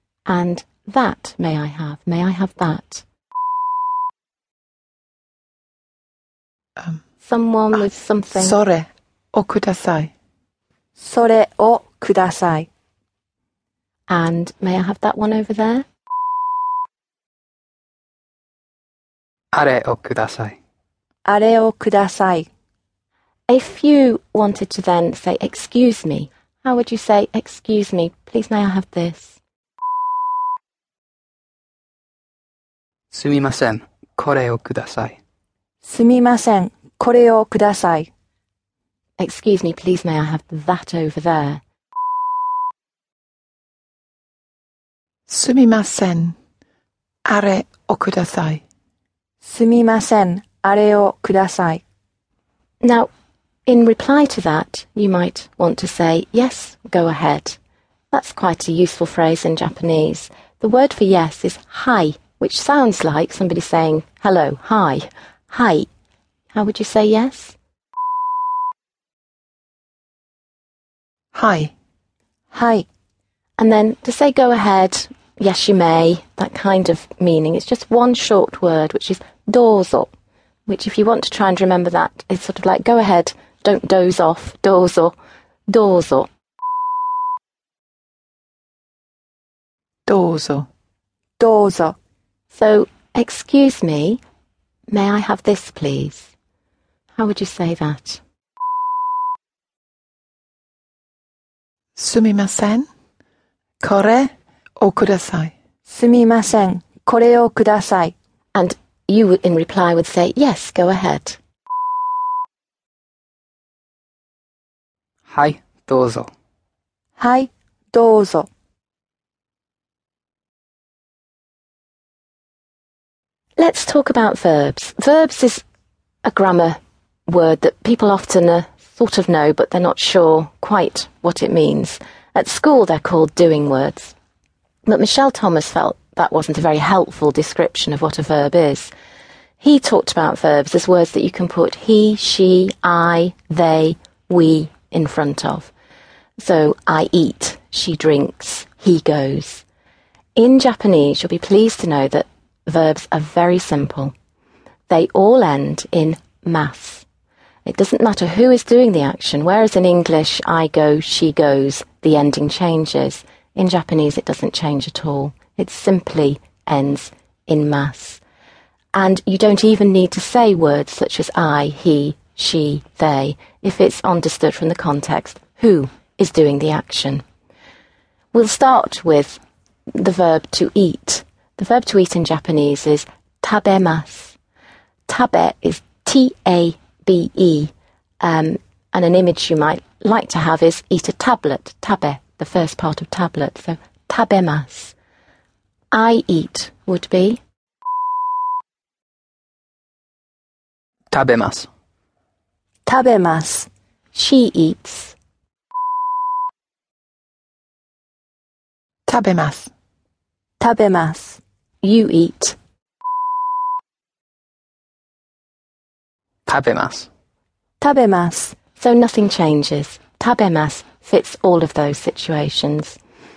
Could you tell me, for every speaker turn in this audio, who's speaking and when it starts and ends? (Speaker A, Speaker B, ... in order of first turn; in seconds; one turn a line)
Speaker A: 0.3-3.0
Speaker A: 7.2-8.6
Speaker B: 8.3-10.1
Speaker C: 11.0-12.7
Speaker A: 14.1-15.8
Speaker D: 19.5-20.6
Speaker C: 21.2-22.5
Speaker A: 23.5-29.4
Speaker D: 33.1-35.2
Speaker C: 35.8-38.1
Speaker A: 39.2-41.6
Speaker B: 45.3-46.3
Speaker B: 47.2-48.6
Speaker C: 49.4-51.8
Speaker A: 52.8-53.1
Speaker A: 53.6-57.6
Speaker A: 58.1-65.9
Speaker A: 66.5-67.5
Speaker B: 71.3-71.7
Speaker C: 72.5-72.8
Speaker A: 73.6-80.1
Speaker A: 80.7-85.1
Speaker A: 85.7-86.3
Speaker B: 90.1-90.7
Speaker C: 91.4-91.9
Speaker A: 92.5-94.2
Speaker A: 94.9-96.3
Speaker A: 97.2-98.2
Speaker B: 101.9-102.9
Speaker B: 103.8-105.5
Speaker C: 105.8-108.1
Speaker A: 108.5-111.4
Speaker D: 115.3-116.3
Speaker C: 117.2-118.5
Speaker A: 123.6-125.6
Speaker A: 126.2-134.1
Speaker A: 134.8-138.9
Speaker A: 139.6-145.7
Speaker A: 146.4-149.6
Speaker A: 150.3-154.1
Speaker A: 154.9-157.1
Speaker A: 157.7-168.2
Speaker A: 168.9-177.2
Speaker A: 178.3-179.4
Speaker A: 179.9-184.3
Speaker A: 185.1-194.9
Speaker A: 195.9-197.4
Speaker D: 201.1-201.7
Speaker C: 202.8-203.7
Speaker A: 204.1-205.1
Speaker B: 209.1-209.7
Speaker C: 210.6-211.4
Speaker A: 211.8-212.6
Speaker D: 216.4-217.1
Speaker C: 217.8-218.6
Speaker A: 218.8-223.0